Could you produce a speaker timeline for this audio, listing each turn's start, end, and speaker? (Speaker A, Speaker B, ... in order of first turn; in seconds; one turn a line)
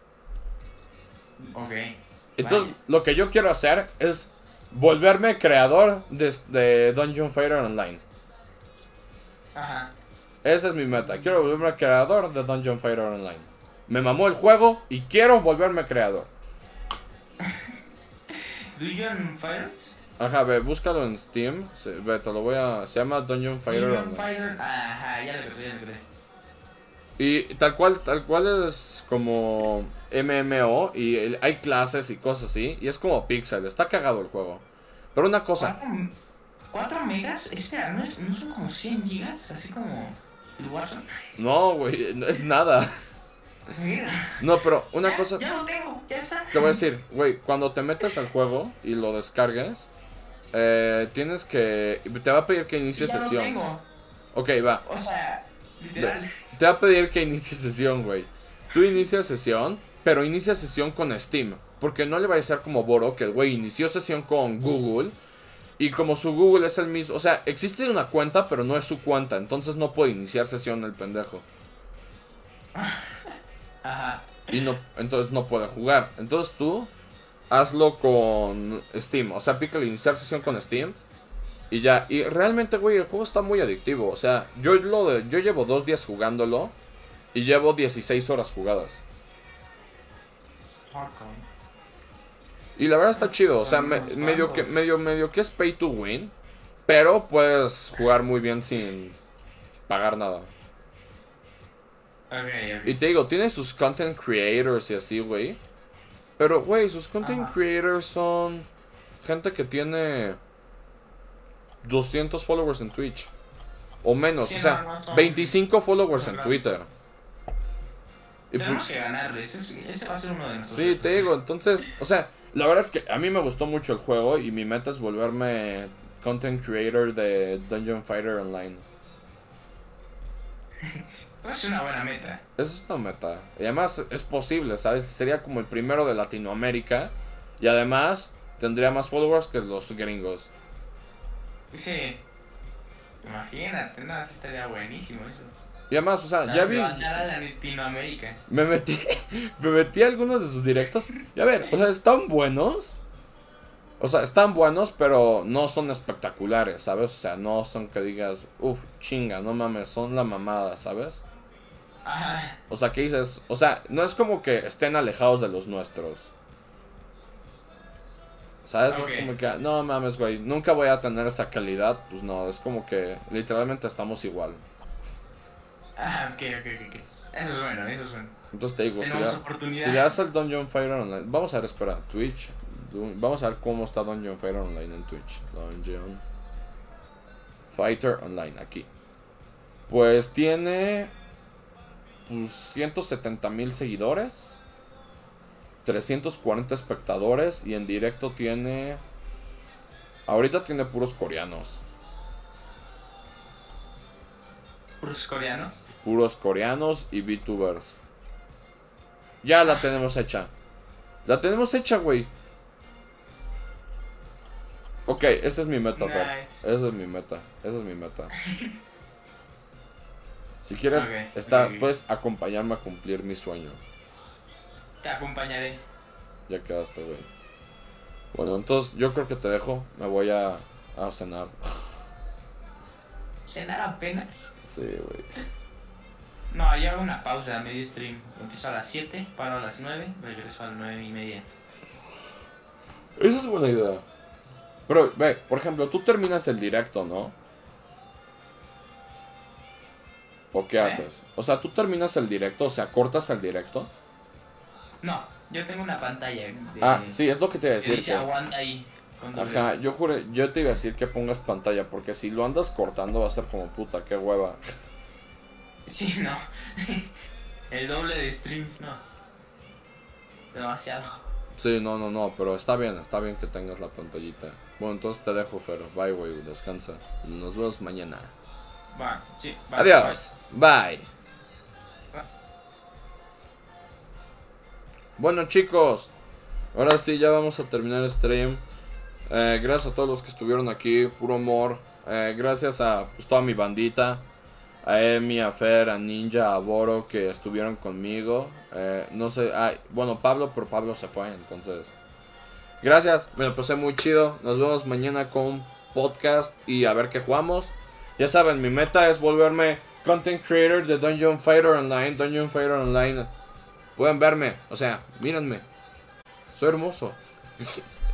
Speaker A: 1.5-2.7
Speaker B: 2.4-8.0
Speaker A: 9.5-9.9
Speaker B: 10.4-16.3
Speaker A: 17.4-17.7
Speaker A: 18.3-20.0
Speaker B: 20.2-24.3
Speaker A: 23.7-26.0
Speaker B: 27.2-35.7
Speaker A: 35.6-36.1
Speaker A: 36.7-41.1
Speaker B: 41.4-42.9
Speaker A: 43.7-44.5
Speaker B: 44.4-45.4
Speaker A: 45.0-46.8
Speaker B: 46.5-49.9
Speaker B: 50.5-53.6
Speaker A: 53.0-53.8
Speaker B: 54.3-54.8
Speaker A: 54.8-56.3
Speaker B: 56.0-65.2
Speaker B: 65.8-71.5
Speaker A: 72.7-74.6
Speaker B: 74.5-76.9
Speaker B: 77.5-81.0
Speaker B: 81.7-86.7
Speaker B: 87.3-89.0
Speaker A: 90.9-91.5
Speaker B: 92.8-96.3
Speaker A: 93.2-94.8
Speaker B: 96.8-99.2
Speaker B: 99.9-100.5
Speaker A: 102.3-102.9
Speaker B: 102.8-105.6
Speaker B: 106.4-108.7
Speaker A: 107.2-107.5
Speaker B: 109.2-110.4
Speaker B: 111.8-113.3
Speaker B: 114.0-116.9
Speaker A: 114.4-115.6
Speaker A: 116.1-116.6
Speaker B: 118.5-118.9
Speaker A: 118.5-121.3
Speaker B: 120.7-128.8
Speaker A: 130.8-132.4
Speaker B: 132.6-140.5
Speaker A: 141.7-142.2
Speaker A: 143.2-145.5
Speaker B: 145.9-147.2
Speaker A: 146.4-148.4
Speaker B: 148.5-152.9
Speaker B: 154.0-161.2
Speaker A: 162.0-162.6
Speaker B: 162.7-166.3
Speaker B: 168.6-174.6
Speaker A: 168.9-169.3
Speaker A: 175.9-178.3
Speaker B: 178.5-186.2
Speaker A: 179.0-180.1
Speaker B: 187.7-188.9
Speaker B: 189.9-191.1
Speaker B: 192.2-194.6
Speaker B: 195.8-199.0
Speaker B: 200.3-201.8
Speaker A: 205.0-205.7
Speaker B: 206.0-208.0
Speaker B: 209.4-210.5
Speaker B: 211.2-212.3
Speaker B: 215.1-218.3
Speaker A: 216.0-216.5
Speaker A: 218.4-218.7
Speaker B: 220.6-223.8
Speaker A: 220.9-221.9
Speaker A: 225.0-225.8
Speaker B: 226.5-227.3
Speaker B: 228.3-232.0
Speaker A: 233.4-234.5
Speaker B: 234.6-235.4
Speaker A: 236.5-241.5
Speaker B: 243.2-244.0
Speaker B: 244.9-247.3
Speaker B: 250.5-253.9
Speaker A: 255.0-257.2
Speaker B: 256.8-258.3
Speaker A: 257.8-259.7
Speaker B: 259.3-264.6
Speaker A: 265.9-267.1
Speaker A: 267.7-269.0
Speaker A: 270.5-271.2
Speaker B: 271.6-278.3
Speaker A: 278.9-280.2
Speaker B: 279.8-281.1
Speaker B: 285.2-286.1
Speaker B: 286.7-288.6
Speaker B: 289.3-294.2
Speaker B: 294.8-301.9
Speaker B: 302.8-313.3
Speaker B: 313.9-315.6
Speaker B: 316.5-317.8